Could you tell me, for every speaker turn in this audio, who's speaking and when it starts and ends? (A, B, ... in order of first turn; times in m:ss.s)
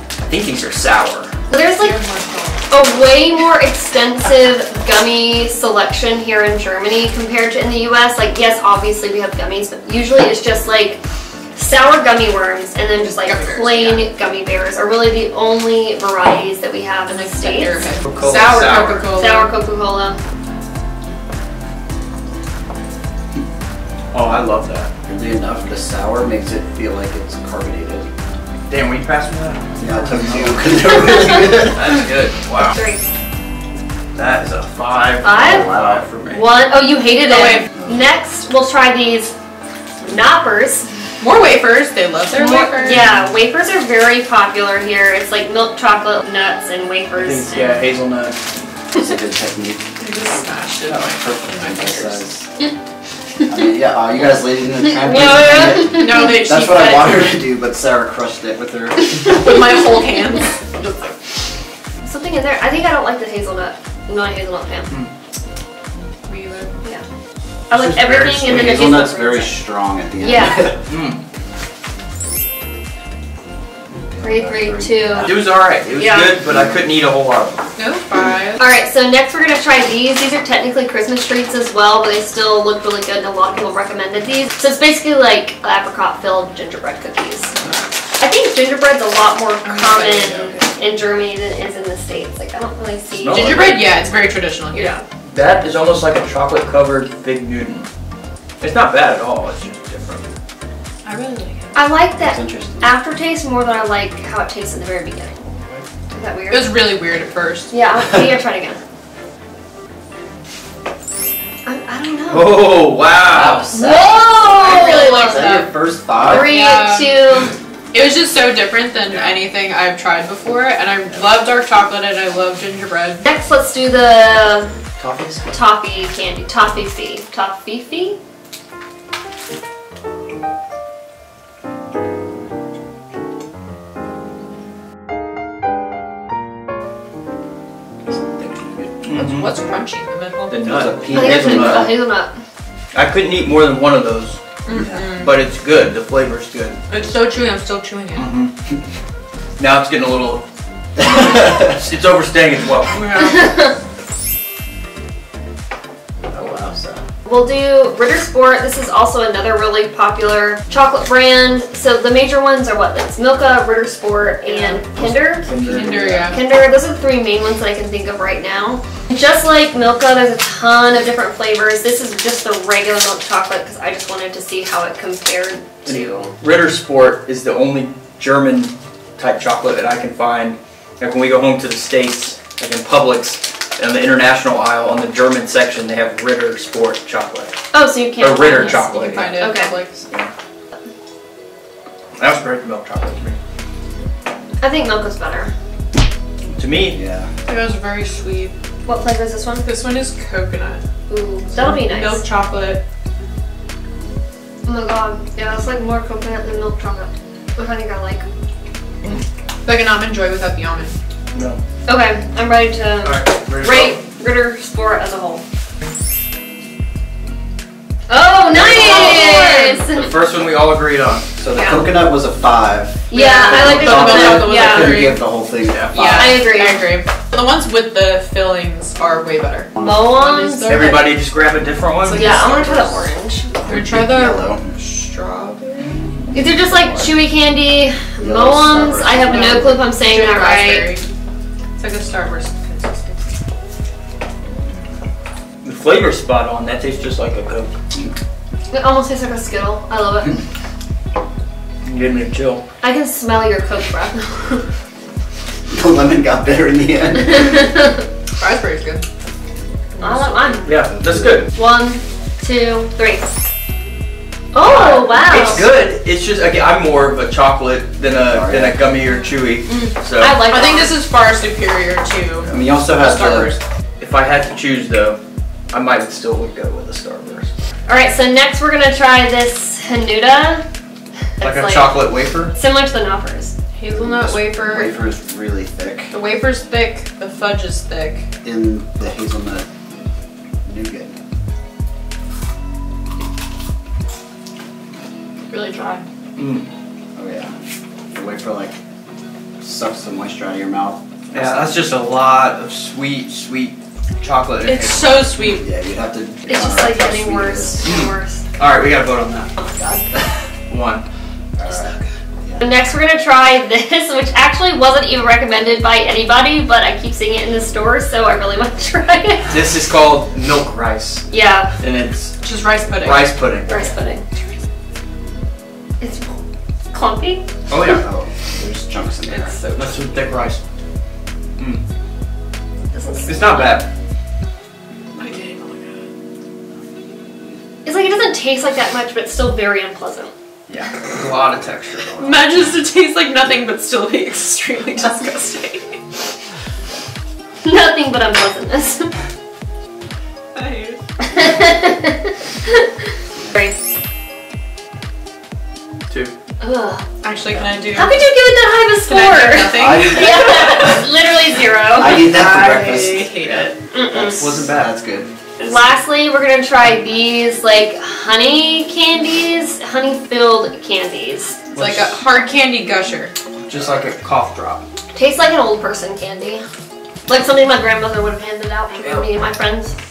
0:00.2-0:01.3 A
0:01.5-0:02.0 B
0:01.8-0:02.6 C
0:02.7-0:11.0 B
0:11.6-0:17.9 B
0:13.0-0:14.1 C
0:17.1-0:19.5 C
0:18.1-0:19.1 A
0:19.1-0:20.2 B
0:24.1-0:24.9 A
0:25.1-0:28.1 D
0:28.7-0:30.9 A
0:29.8-0:31.9 D
0:30.9-0:31.6 B
0:31.7-0:32.8 A
0:32.6-0:33.0 B
0:34.2-0:36.5 A
0:35.2-0:35.7 B
0:35.4-0:36.0 D
0:36.3-0:39.4 B
0:37.2-0:37.7 C
0:40.0-0:40.9 B
0:41.2-0:43.0 C
0:42.3-0:47.8 B
0:47.2-0:48.4 A
0:49.0-0:49.8 D
0:50.0-0:52.2 C
0:50.9-0:52.5 D
0:53.5-0:59.2 D
0:54.8-0:56.4 B
0:55.9-0:57.3 C
0:59.2-1:00.7 C
1:02.0-1:04.9 B
1:06.3-1:06.8 C
1:07.7-1:09.6 B
1:07.7-1:08.6 A
1:08.0-1:10.8 D
1:10.2-1:10.7 B
1:10.9-1:11.2 A
1:13.9-1:15.3 D
1:14.2-1:15.3 B
1:15.2-1:17.7 A
1:16.0-1:16.4 B
1:16.5-1:16.8 D
1:17.8-1:18.6 C
1:18.6-1:27.5 B
1:28.2-1:33.7 B
1:29.6-1:30.4 C
1:30.2-1:30.7 D
1:33.1-1:34.0 A
1:33.3-1:34.9 C
1:34.7-1:35.0 B
1:35.3-1:37.9 A
1:38.6-1:40.2 A
1:41.0-1:41.8 C
1:41.8-1:45.4 B
1:42.2-1:42.9 D
1:46.1-1:46.8 B
1:46.5-1:47.7 C
1:47.7-1:48.8 B
1:51.6-1:52.7 B
1:52.3-1:53.7 A
1:53.3-1:56.5 D
1:53.7-1:55.5 B
1:54.4-1:57.2 C
1:56.2-1:57.6 B
1:57.9-2:03.2 C
2:03.2-2:04.7 B
2:05.0-2:05.6 A
2:05.5-2:08.2 B
2:18.1-2:19.0 D
2:19.0-2:19.5 A
2:19.1-2:20.6 C
2:20.5-2:21.9 A
2:20.7-2:22.0 D
2:21.1-2:22.3 B
2:22.9-2:24.4 A
2:24.7-2:25.3 C
2:24.7-2:25.1 D
2:25.2-2:26.8 A
2:26.9-2:28.3 C
2:28.2-2:28.5 A
2:29.6-2:30.4 A
2:31.0-2:33.1 A
2:31.1-2:31.7 D
2:32.9-2:33.6 C
2:33.2-2:33.8 B
2:36.3-2:37.0 D
2:37.2-2:45.5 B
2:44.4-2:44.8 C
2:44.9-2:46.4 A
2:45.6-2:46.4 C
2:46.3-2:56.3 B
2:55.8-3:07.6 A
3:07.7-3:09.8 B
3:08.2-3:09.3 A
3:08.8-3:10.1 C
3:12.2-3:13.4 A
3:14.6-3:15.5 B
3:16.6-3:17.0 A
3:16.9-3:17.3 D
3:17.5-3:18.6 C
3:18.9-3:19.7 B
3:19.6-3:20.8 C
3:21.1-3:22.2 B
3:21.6-3:22.8 C
3:24.7-3:28.3 B
3:29.6-3:30.9 C
3:31.3-3:31.6 A
3:31.9-3:35.4 B
3:33.0-3:34.0 A
3:38.1-3:40.1 B
3:38.5-3:39.4 D
3:38.5-3:41.3 A
3:38.7-3:39.8 C
3:41.4-3:46.4 D
3:41.5-3:41.9 B
3:43.1-3:45.1 B
3:43.1-3:45.2 C
3:45.6-3:46.0 A
3:45.9-3:51.2 C
3:46.0-3:46.9 B
3:49.8-3:50.1 D
3:49.8-3:51.1 B
3:50.7-3:52.4 A
3:52.0-3:53.1 C
3:52.1-3:53.5 B
3:53.6-3:56.1 C
3:53.7-3:54.6 D
3:56.3-4:00.9 B
3:56.7-3:57.2 D
3:58.2-3:59.8 D
3:59.2-4:01.1 C
4:01.8-4:03.3 C
4:05.6-4:07.7 A
4:08.7-4:10.4 B
4:11.8-4:12.6 A
4:12.8-4:14.7 B
4:15.7-4:17.7 D
4:17.3-4:18.0 B
4:18.4-4:19.0 C
4:20.0-4:20.6 C
4:20.0-4:20.7 B
4:20.6-4:21.5 A
4:20.8-4:21.5 D
4:21.5-4:23.3 B
4:24.5-4:25.7 B
4:24.6-4:30.5 A
4:28.2-4:28.9 D
4:29.7-4:30.9 B
4:30.5-4:33.6 C
4:32.4-4:33.6 D
4:34.0-4:35.2 A
4:35.7-4:37.5 A
4:37.9-4:40.6 B
4:41.4-4:42.0 B
4:41.4-4:42.5 A
4:42.5-4:43.5 B
4:43.8-4:45.0 C
4:43.9-4:46.1 D
4:46.1-4:48.3 C
4:48.4-4:49.7 D
4:50.6-4:51.2 D
4:55.5-4:56.0 C
4:56.4-4:56.7 A
4:57.2-4:57.5 D
4:58.1-4:58.8 D
4:59.6-5:01.6 D
5:01.3-5:05.3 A
5:04.6-5:05.6 C
5:05.4-5:07.9 D
5:06.5-5:08.4 B
5:07.8-5:09.5 A
5:09.7-5:10.0 B
5:10.7-5:11.0 A
5:11.6-5:11.9 D
5:11.7-5:12.0 C
5:12.6-5:19.5 B
5:19.5-5:21.3 A
5:21.3-5:21.7 B
5:21.8-5:22.4 A
5:22.4-5:23.3 C
5:23.0-5:23.7 A
5:23.7-5:24.2 B
5:26.0-5:26.3 B
5:26.9-5:27.4 B
5:27.7-5:28.0 A
5:28.0-5:29.6 D
5:29.3-5:30.0 C
5:29.8-5:30.6 A
5:32.9-5:33.8 B
5:33.3-5:33.9 A
5:35.2-5:36.0 C
5:37.8-5:40.3 B
5:40.7-5:42.6 A
5:42.2-5:46.0 C
5:47.6-5:49.1 B
5:50.5-5:51.0 C
5:51.2-5:52.9 B
5:56.6-5:57.0 B
5:57.2-5:58.2 C
5:57.9-6:02.3 B
5:59.0-6:00.7 C
5:59.7-6:00.9 D
6:02.0-6:05.3 D
6:02.2-6:03.8 C
6:03.9-6:04.5 B
6:04.1-6:04.9 A
6:05.6-6:11.6 B
6:11.7-6:12.2 A
6:11.8-6:13.3 C
6:13.7-6:14.8 A
6:15.1-6:16.7 B
6:17.3-6:20.0 B